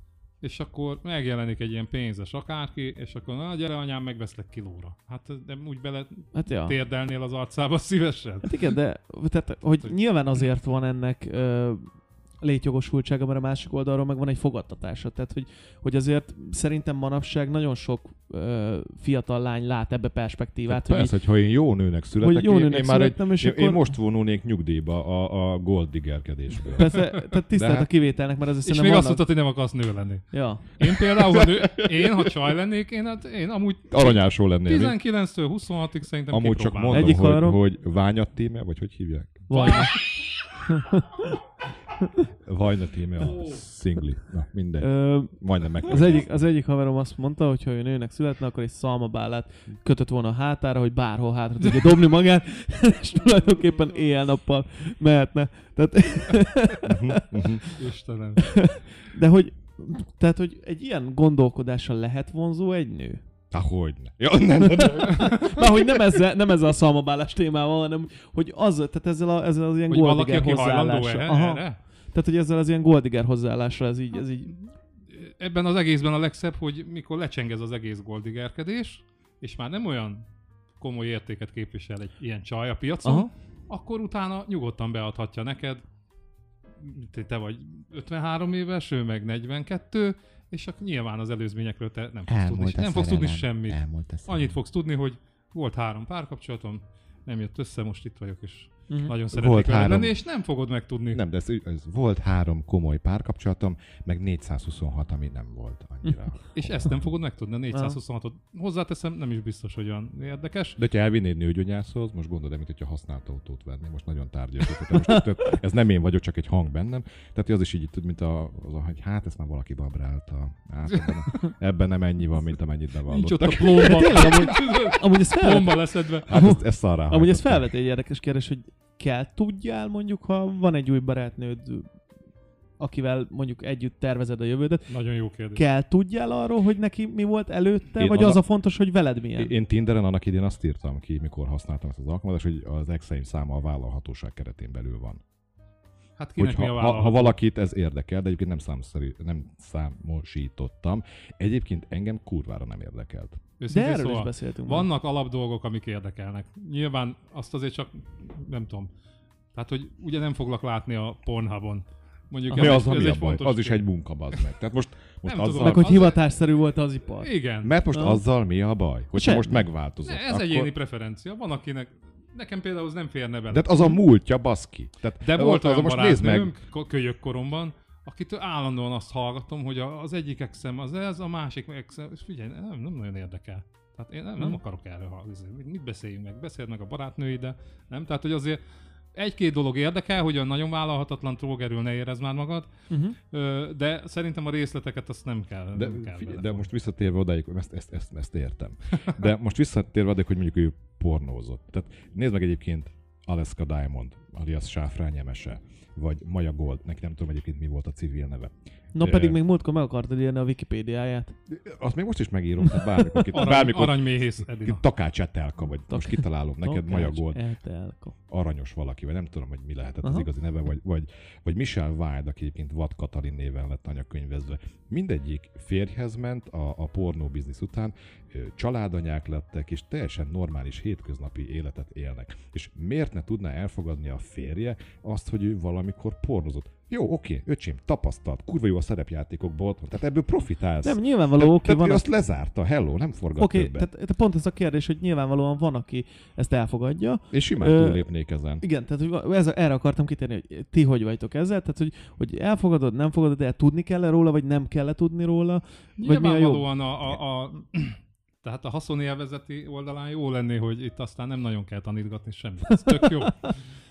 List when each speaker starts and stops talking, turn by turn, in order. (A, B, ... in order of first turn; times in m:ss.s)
0:00.4-0:08.6 A
0:06.4-0:06.8 B
0:08.4-0:11.9 B
0:12.4-0:21.2 B
0:20.7-0:27.0 C
0:22.2-0:23.9 B
0:26.7-0:29.2 B
0:27.5-0:27.9 C
0:28.6-0:37.2 A
0:30.3-0:30.7 B
0:30.9-0:32.3 C
0:33.9-0:35.0 C
0:36.3-0:39.5 C
0:36.9-0:37.6 B
0:39.5-0:40.0 B
0:39.5-0:39.9 A
0:40.6-0:41.4 B
0:42.4-0:46.4 C
0:43.2-0:43.6 A
0:44.8-0:57.8 B
0:56.8-0:57.6 C
0:57.7-0:58.5 A
0:58.4-1:03.2 B
1:03.5-1:05.5 C
1:04.6-1:14.5 B
1:09.9-1:11.8 A
1:15.1-1:20.2 A
1:20.8-1:25.8 A
1:23.0-1:23.3 B
1:26.8-1:41.2 A
1:32.3-1:34.6 C
1:38.9-1:39.2 B
1:39.3-1:40.2 C
1:41.1-1:47.1 C
1:46.6-1:50.8 A
1:47.7-1:48.0 B
1:50.8-2:04.2 C
1:54.8-1:55.3 B
2:03.1-2:06.3 A
2:03.7-2:11.9 B
2:06.3-2:07.7 C
2:12.8-2:14.9 B
2:14.9-2:15.6 A
2:15.5-2:19.5 B
2:18.0-2:18.4 C
2:19.4-2:25.2 C
2:26.2-2:27.3 A
2:26.4-2:33.4 C
2:33.6-2:38.9 A
2:33.7-2:34.9 B
2:39.5-2:44.4 A
2:42.5-2:46.0 C
2:45.3-2:46.2 A
2:45.6-2:47.3 B
2:47.2-2:47.8 A
2:47.6-2:50.7 C
2:47.9-2:48.2 B
2:49.1-2:49.7 B
2:50.0-2:54.0 A
2:53.5-2:56.5 C
2:55.2-3:08.6 A
3:09.1-3:12.7 A
3:12.9-3:13.2 B
3:13.3-3:16.7 A
3:15.7-3:29.4 C
3:29.0-3:31.3 B
3:31.5-3:37.4 C
3:32.7-3:33.3 B
3:33.3-3:34.8 A
3:35.9-3:38.2 B
3:38.3-4:03.9 C
3:40.0-3:40.3 B
4:00.8-4:02.0 B
4:03.4-4:08.1 B
4:07.3-4:08.6 C
4:08.6-4:16.7 B
4:16.0-4:23.6 A
4:22.7-4:23.5 B